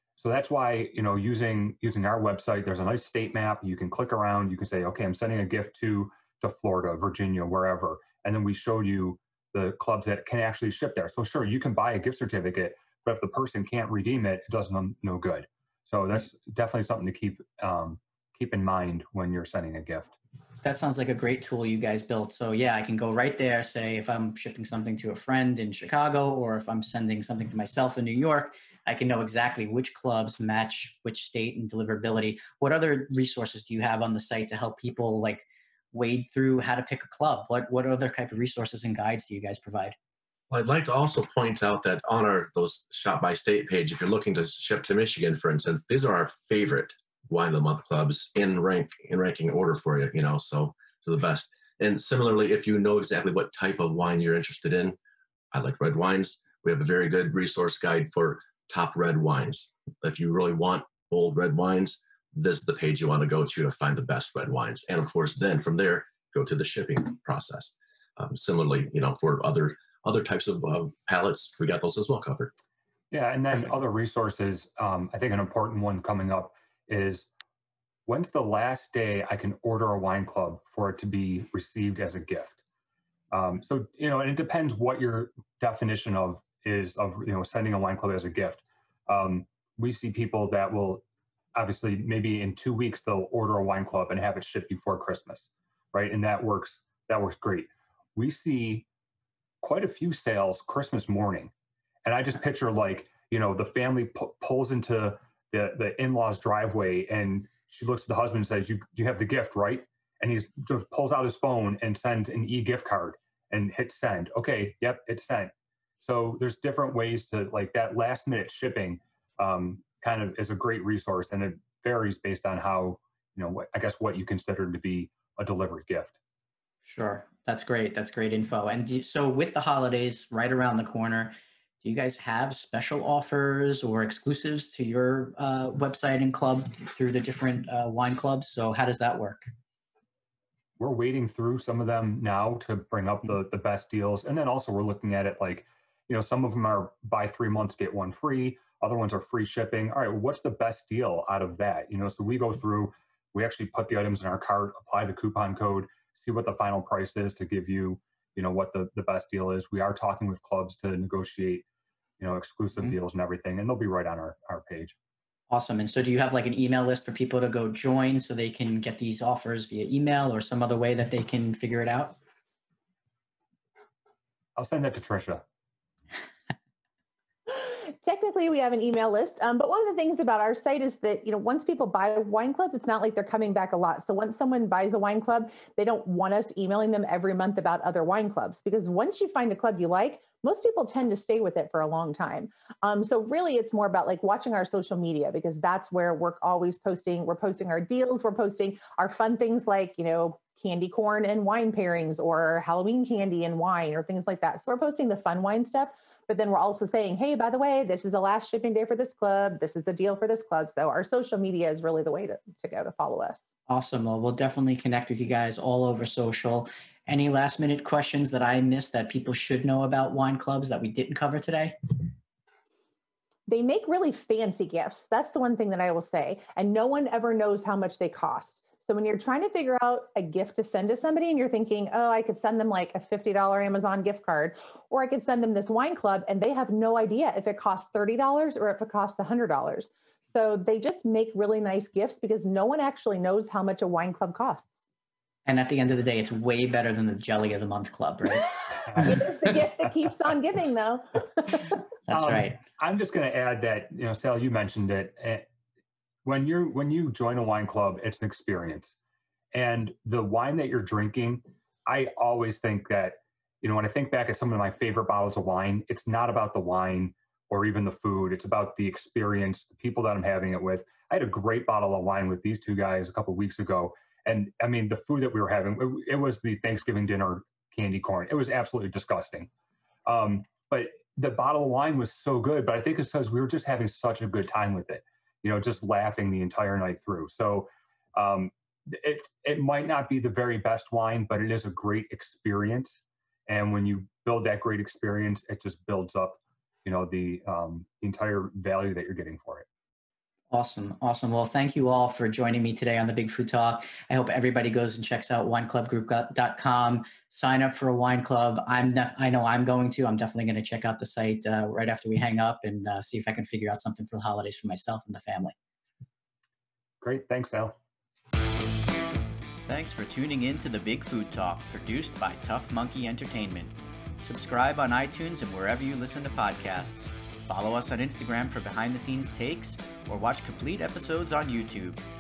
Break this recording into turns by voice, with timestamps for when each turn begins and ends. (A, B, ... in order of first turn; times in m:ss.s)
0:00.2-0:20.1 A
0:20.6-0:40.0 B
0:40.5-0:55.0 C
0:55.5-1:12.5 C
1:13.1-1:17.3 A
1:18.1-1:22.6 A
1:23.3-1:31.0 A
1:31.6-1:38.9 A
1:39.6-1:41.5 A
1:42.0-2:06.1 A
2:06.8-2:19.5 B
2:20.8-2:41.6 A
2:42.2-2:45.0 A
2:45.5-2:52.2 B
2:54.6-2:55.4 A
2:57.5-3:33.4 D
3:33.7-3:41.8 B
3:43.5-4:04.7 D
4:05.5-4:09.5 B
4:08.9-4:09.2 A
4:09.0-4:11.6 D
4:12.1-4:12.6 B
4:12.1-4:15.4 A
4:16.2-4:18.9 A
4:19.5-4:39.5 A
4:40.1-4:59.6 A
5:00.5-5:15.6 B
5:17.0-5:17.8 A
5:19.7-5:32.0 B